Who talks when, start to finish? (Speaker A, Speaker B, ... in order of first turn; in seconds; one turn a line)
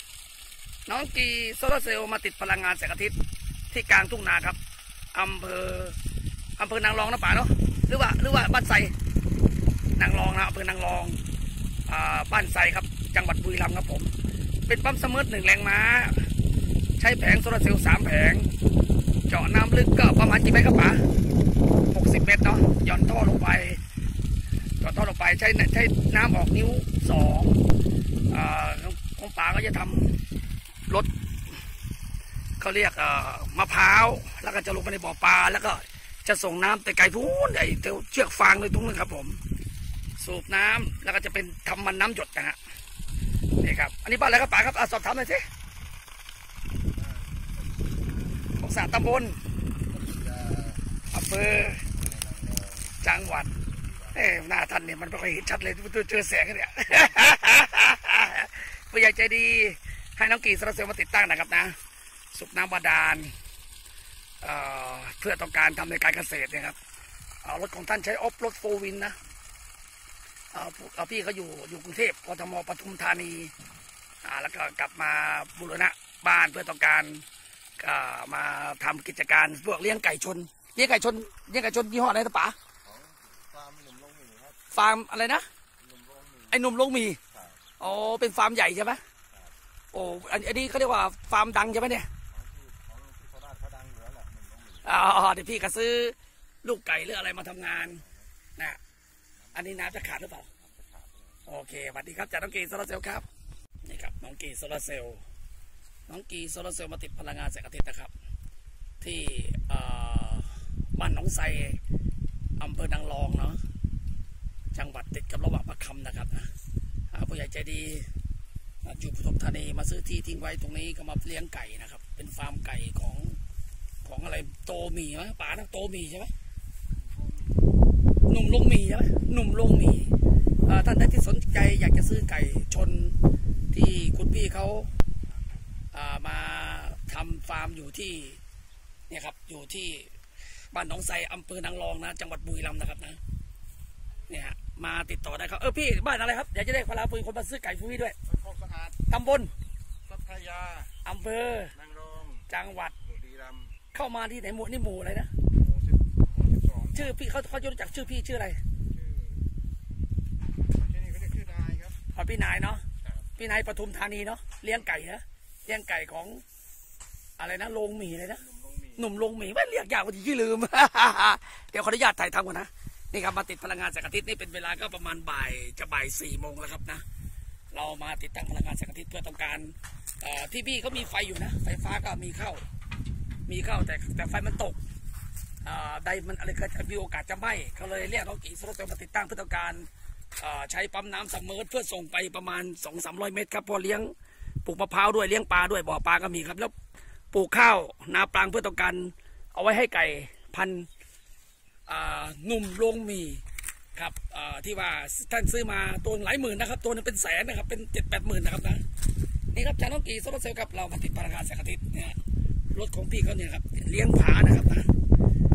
Speaker A: 0.9-3.2
Speaker A: 3.7-4.6
Speaker A: 5.1-6.0
Speaker A: 6.6-8.9
Speaker A: 10.0-11.2
Speaker A: 11.9-14.1
Speaker A: 14.7-16.3
Speaker A: 17.0-18.5
Speaker A: 19.3-21.1
Speaker A: 21.9-23.8
Speaker A: 24.8-27.6
Speaker A: 28.3-30.2
Speaker A: 32.6-39.4
Speaker A: 40.2-42.6
Speaker A: 43.6-45.5
Speaker B: 46.9-48.2
Speaker A: 48.6-49.4
Speaker B: 49.9-50.8
Speaker A: 51.1-51.9
Speaker B: 51.9-52.9
Speaker A: 53.0-53.5
Speaker A: 54.1-61.8
Speaker A: 62.3-63.3
Speaker A: 64.4-66.8
Speaker A: 67.4-69.2
Speaker A: 70.5-73.5
Speaker A: 74.2-77.2
Speaker A: 77.8-82.6
Speaker B: 82.8-84.6
Speaker A: 84.7-85.5
Speaker B: 85.8-86.6
Speaker A: 86.5-87.2
Speaker B: 87.3-87.6
Speaker A: 87.8-89.0
Speaker A: 89.9-92.1
Speaker B: 92.3-94.9
Speaker A: 94.8-98.0
Speaker B: 99.4-101.4
Speaker A: 99.5-100.5
Speaker A: 101.5-103.3
Speaker A: 103.9-105.2
Speaker A: 106.1-108.1
Speaker A: 109.0-111.8
Speaker A: 112.6-113.6
Speaker A: 114.7-116.5
Speaker A: 117.1-118.1
Speaker A: 118.8-123.4
Speaker A: 124.0-126.3
Speaker B: 127.0-127.7
Speaker A: 128.3-130.1
Speaker A: 130.7-133.2
Speaker A: 133.7-134.9
Speaker A: 135.9-138.4
Speaker A: 139.1-140.1
Speaker A: 140.7-143.2
Speaker A: 144.3-148.2
Speaker B: 148.2-149.0
Speaker A: 149.1-149.5
Speaker B: 150.1-150.9
Speaker A: 151.0-151.7
Speaker B: 151.7-152.4
Speaker A: 152.5-152.9
Speaker B: 153.0-153.8
Speaker A: 153.9-155.3
Speaker B: 155.5-157.0
Speaker A: 156.9-158.6
Speaker B: 158.9-159.4
Speaker B: 160.7-162.0
Speaker A: 162.1-162.8
Speaker A: 163.4-166.4
Speaker A: 167.4-168.4
Speaker B: 168.4-169.0
Speaker A: 169.0-177.0
Speaker A: 177.7-182.6
Speaker A: 183.5-184.8
Speaker A: 185.6-196.7
Speaker A: 197.3-200.9
Speaker A: 201.9-203.4
Speaker A: 203.9-208.8
Speaker A: 209.5-212.2
Speaker A: 212.7-214.9